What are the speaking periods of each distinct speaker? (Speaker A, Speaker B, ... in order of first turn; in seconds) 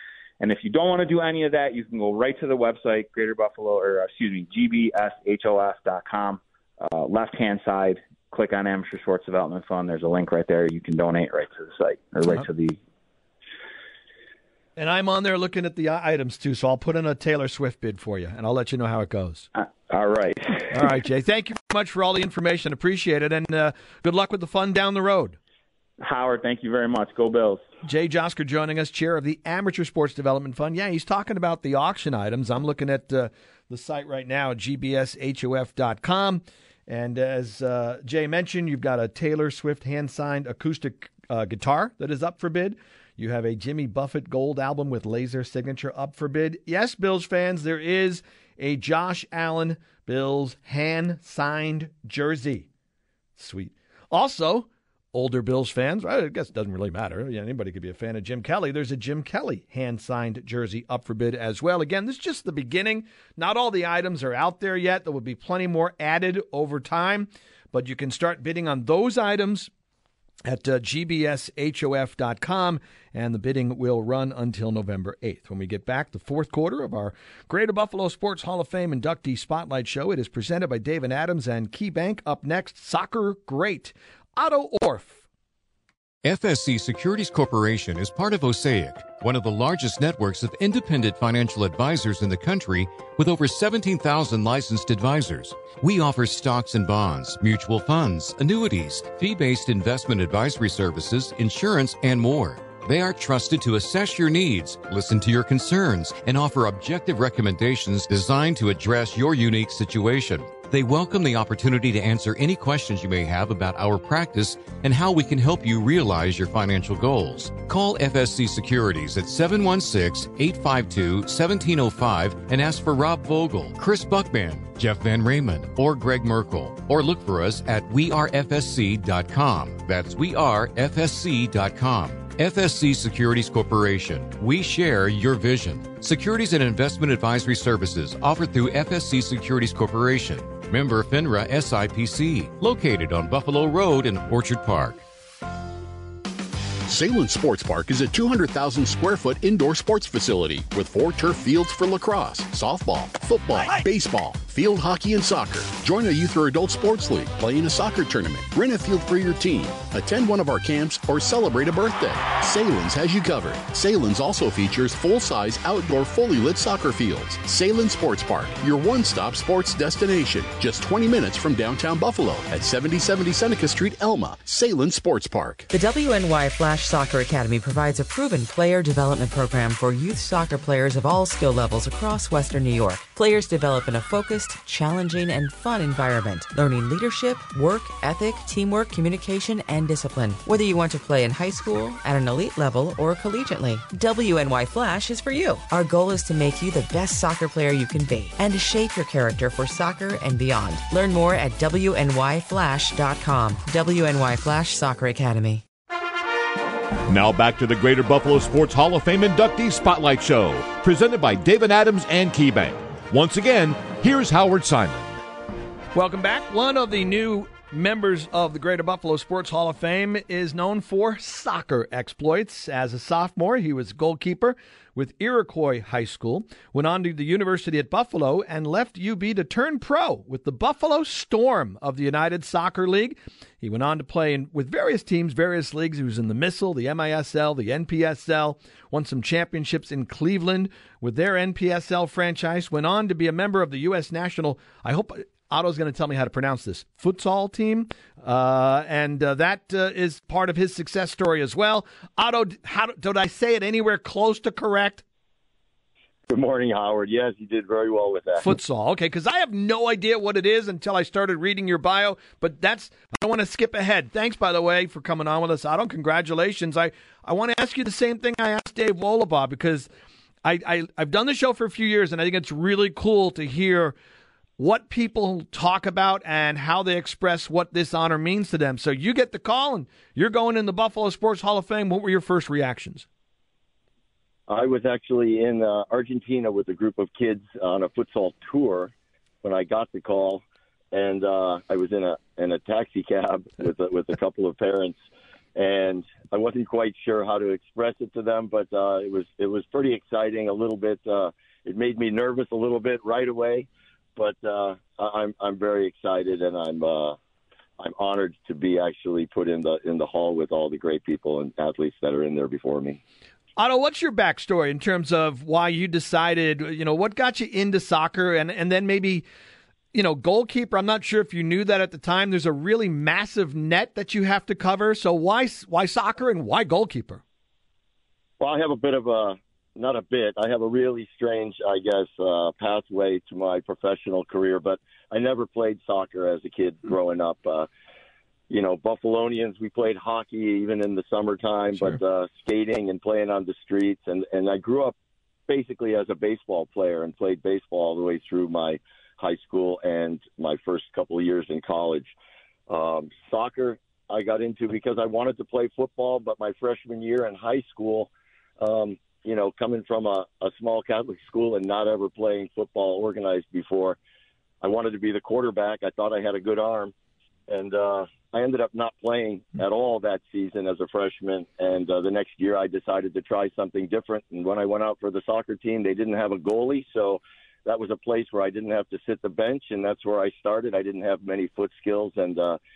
Speaker A: 0.4-12.8, 19.6-20.7, 26.0-27.6
Speaker B: 14.8-19.5, 20.7-25.4, 27.8-52.7, 53.4-69.7, 70.5-85.2, 215.9-255.0, 258.4-269.9, 270.4-274.0, 274.6-283.1, 313.6-319.3, 319.9-327.2
Speaker C: 86.2-145.0
Speaker D: 146.9-175.7
Speaker E: 175.7-205.6
Speaker F: 207.1-215.2
Speaker G: 256.3-258.4, 284.5-288.9, 289.4-290.4, 290.9-295.0, 295.6-307.2, 307.8-313.0, 328.4-337.7, 338.5-344.9, 345.5-352.1, 352.7-358.1, 358.6-364.0, 364.6-366.9, 367.5-382.6